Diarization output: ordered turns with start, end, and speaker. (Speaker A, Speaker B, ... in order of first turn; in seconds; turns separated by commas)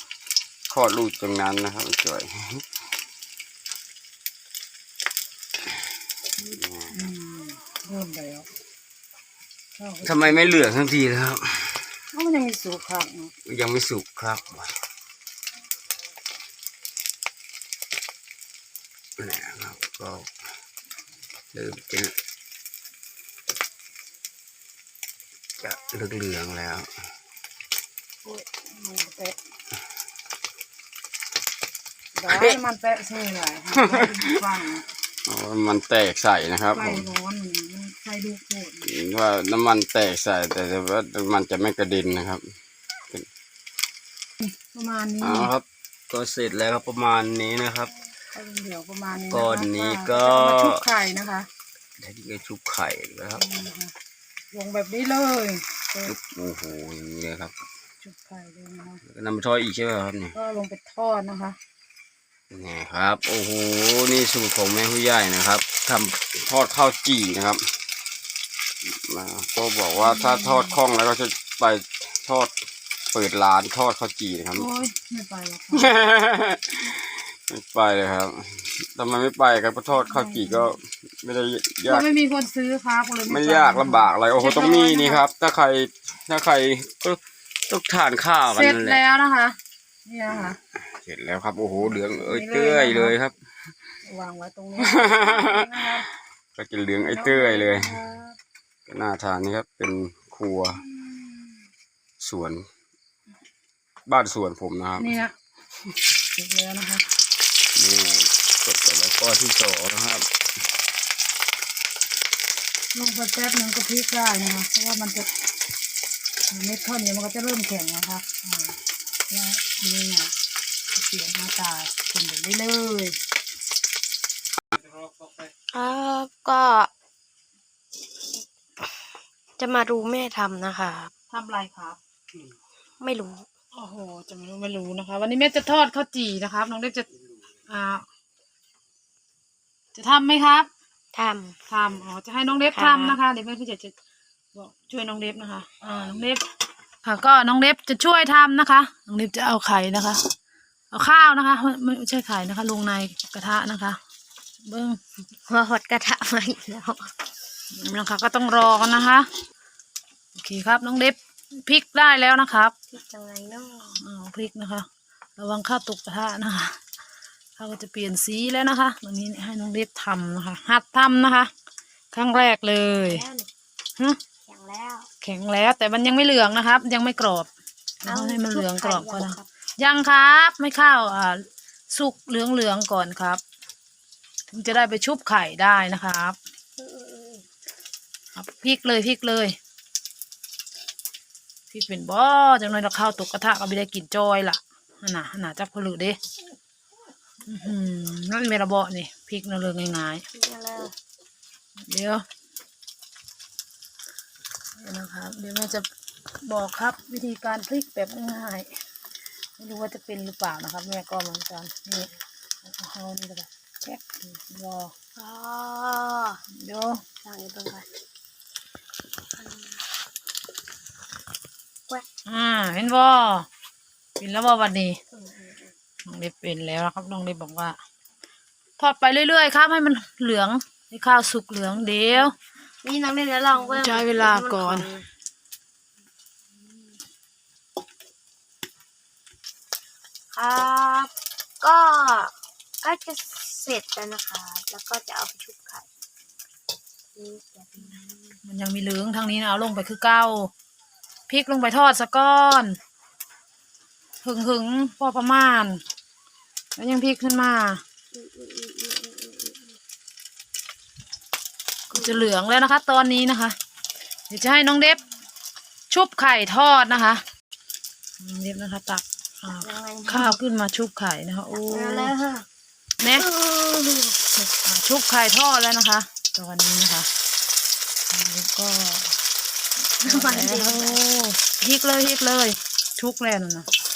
Speaker A: 0.7-2.6, Speaker A: 6.5-7.1, Speaker B: 6.9-8.5, Speaker B: 9.8-10.8, Speaker A: 10.0-11.9, Speaker B: 12.1-13.3, Speaker A: 13.5-14.7, Speaker A: 19.2-20.3, Speaker A: 21.5-22.1, Speaker A: 25.6-26.9, Speaker B: 28.2-29.4, Speaker B: 32.1-34.9, Speaker A: 32.3-32.6, Speaker A: 33.8-34.2, Speaker A: 35.3-37.1, Speaker B: 36.7-38.9, Speaker A: 38.9-42.4, Speaker B: 44.4-45.5, Speaker A: 45.2-47.9, Speaker B: 48.3-51.5, Speaker A: 49.3-50.9, Speaker A: 52.0-53.4, Speaker B: 53.4-53.9, Speaker B: 54.5-56.1, Speaker A: 56.0-57.5, Speaker B: 58.0-59.0, Speaker A: 59.1-60.4, Speaker B: 60.3-61.6, Speaker A: 62.5-67.6, Speaker A: 68.9-72.5, Speaker B: 70.0-70.8, Speaker A: 73.1-74.7, Speaker B: 74.5-75.9, Speaker A: 75.7-82.1, Speaker B: 79.9-80.7, Speaker B: 81.9-85.2, Speaker A: 83.3-89.0, Speaker B: 88.5-90.6, Speaker A: 91.0-93.3, Speaker B: 91.8-93.2, Speaker B: 94.1-96.1, Speaker A: 94.8-95.7, Speaker A: 96.6-98.0, Speaker B: 97.1-98.3, Speaker A: 98.9-100.8, Speaker A: 102.2-102.7, Speaker A: 104.1-105.2, Speaker B: 105.0-105.4, Speaker B: 106.3-107.1, Speaker A: 107.8-110.3, Speaker B: 112.9-115.3, Speaker B: 116.5-118.8, Speaker B: 119.3-120.3, Speaker B: 120.9-123.2, Speaker C: 125.7-126.9, Speaker C: 129.6-131.1, Speaker B: 131.3-132.0, Speaker C: 133.0-133.5, Speaker B: 133.7-137.1, Speaker B: 137.7-138.1, Speaker B: 139.9-140.7, Speaker C: 141.1-141.6, Speaker B: 141.7-143.9, Speaker C: 142.8-143.2, Speaker B: 144.5-146.4, Speaker B: 147.0-150.3, Speaker B: 150.9-154.0, Speaker B: 154.7-155.0, Speaker C: 155.5-157.1, Speaker B: 157.7-159.3, Speaker B: 160.4-162.7, Speaker C: 162.9-164.0, Speaker B: 163.9-166.8, Speaker B: 167.6-171.5, Speaker B: 172.1-173.2, Speaker C: 172.8-173.5, Speaker C: 174.5-175.1, Speaker B: 175.2-177.5, Speaker C: 178.0-179.4, Speaker B: 178.0-183.4, Speaker B: 184.5-186.4, Speaker C: 186.8-187.4, Speaker B: 188.3-189.6, Speaker B: 191.7-196.2, Speaker B: 197.5-200.2, Speaker C: 200.3-200.9, Speaker B: 201.9-202.2, Speaker B: 204.8-208.7, Speaker B: 209.6-214.9, Speaker C: 215.2-216.4, Speaker B: 216.5-217.0, Speaker C: 217.2-217.9, Speaker C: 219.4-219.8, Speaker B: 222.3-223.5, Speaker B: 224.2-225.0, Speaker C: 225.1-225.7, Speaker B: 226.1-227.8, Speaker B: 228.8-232.3, Speaker C: 232.8-235.1, Speaker B: 233.7-234.9, Speaker C: 240.3-245.8, Speaker C: 247.2-248.4, Speaker B: 248.4-250.5, Speaker B: 251.3-252.8, Speaker B: 254.2-255.8, Speaker B: 256.8-257.8, Speaker C: 258.1-259.8, Speaker B: 261.9-263.6, Speaker B: 264.3-265.0, Speaker B: 265.9-267.2, Speaker B: 268.2-272.1, Speaker C: 269.6-270.4, Speaker C: 271.7-272.5, Speaker B: 273.0-273.3, Speaker C: 273.1-274.2, Speaker B: 274.5-277.1, Speaker B: 278.1-279.1, Speaker C: 280.0-281.0, Speaker B: 280.0-283.7